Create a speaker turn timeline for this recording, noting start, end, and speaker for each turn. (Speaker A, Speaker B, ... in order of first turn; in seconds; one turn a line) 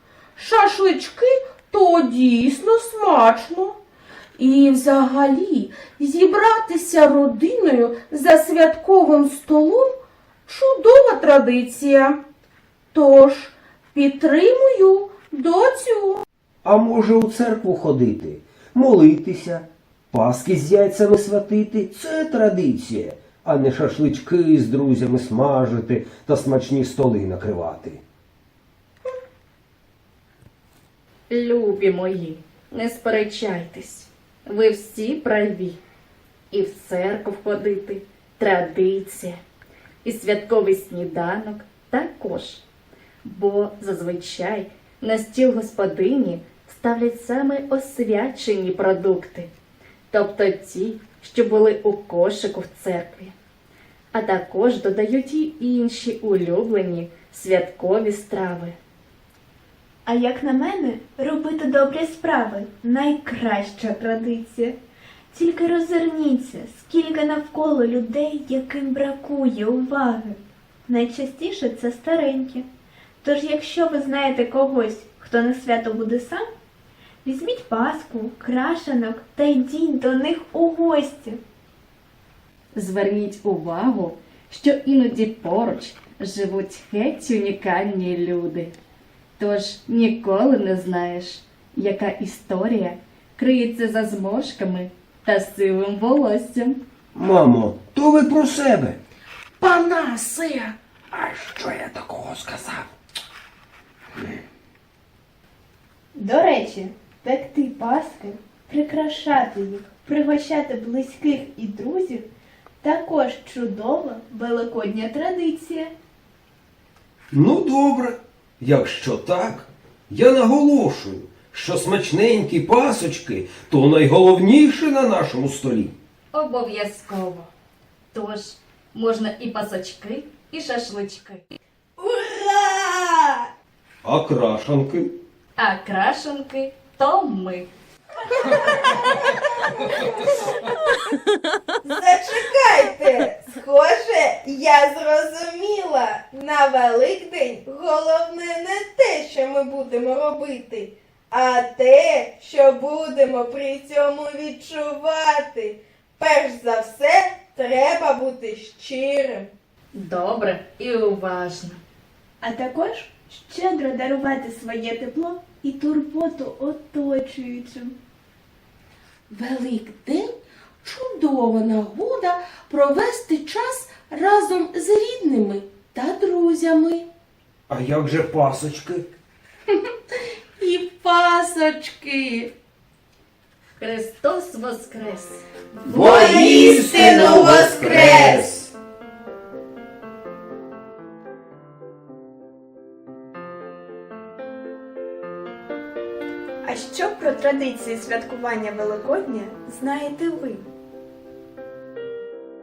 Speaker A: 0.4-3.8
Speaker A: 4.4-12.2
Speaker A: 12.9-16.2
Speaker B: 16.6-28.0
Speaker C: 31.3-35.8
Speaker C: 36.5-39.4
Speaker C: 40.0-42.6
Speaker C: 43.2-49.5
Speaker C: 50.1-53.3
Speaker C: 54.1-58.8
Speaker D: 60.1-64.8
Speaker D: 65.3-72.7
Speaker D: 73.2-76.5
Speaker D: 77.2-81.4
Speaker C: 82.8-88.7
Speaker C: 89.4-96.8
Speaker B: 97.2-99.0
Speaker A: 99.6-100.8
Speaker B: 101.1-102.9
Speaker D: 106.2-112.3
Speaker D: 112.8-115.9
Speaker B: 117.3-125.9
Speaker C: 126.3-127.5
Speaker C: 128.1-131.5
Speaker E: 132.0-133.5
Speaker B: 134.0-135.1
Speaker C: 135.6-137.7
Speaker E: 141.8-159.5
Speaker C: 159.9-161.8
Speaker D: 162.4-167.9
Speaker A: 169.3-177.1
Speaker B: 177.7-179.1
Speaker A: 180.6-182.5
Speaker C: 183.8-185.4
Speaker B: 185.8-188.7
Speaker E: 186.2-188.4
Speaker D: 196.6-200.7